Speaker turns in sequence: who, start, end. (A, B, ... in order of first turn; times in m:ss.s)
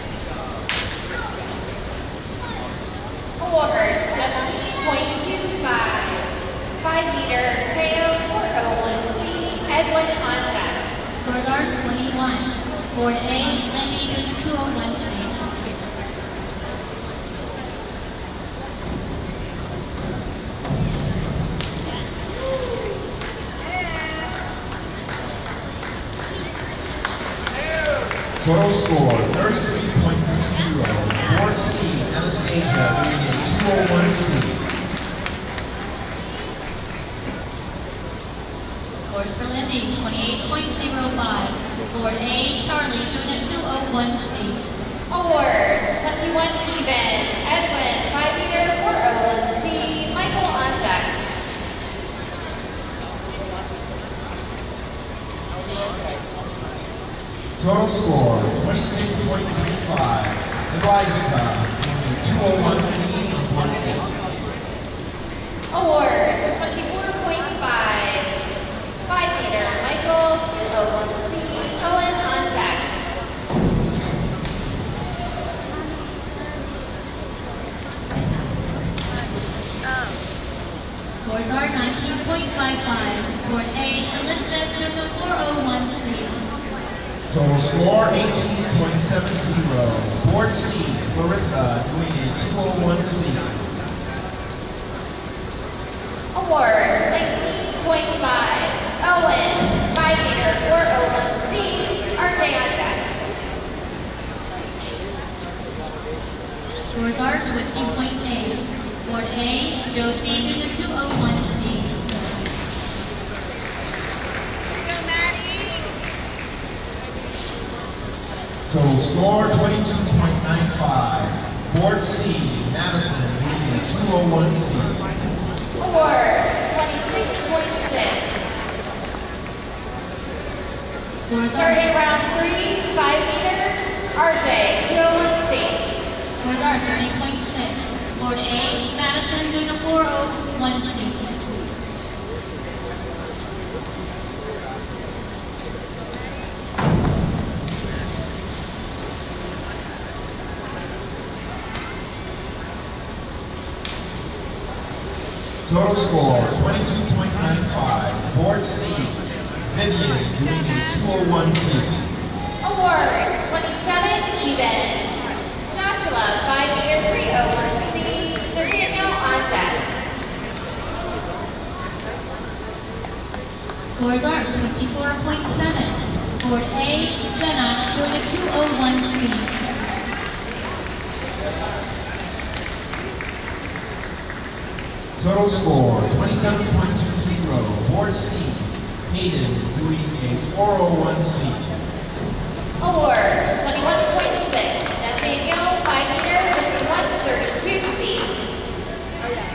0:03.4-0:06.3 A
0:06.8-0:10.8 A
0:11.2-0:15.4 B
0:28.4-0:34.6 C
0:39.0-0:44.6 B
0:45.1-0:51.1 A
0:57.6-1:04.0 C
1:05.7-1:08.3 A
1:09.1-1:12.9 A
1:21.2-1:26.4 B
1:27.3-1:33.5 C
1:36.4-1:43.0 A
1:46.9-1:52.0 B
1:58.7-2:05.0 C
2:05.8-2:08.4 A
2:11.1-2:11.9 B
2:11.6-2:15.9 A
2:16.3-2:21.4 B
2:35.7-2:42.0 C
2:42.6-2:45.1 A
2:45.7-2:49.9 A
2:53.9-2:59.5 B
3:05.2-3:11.6 C
3:12.8-3:18.4 A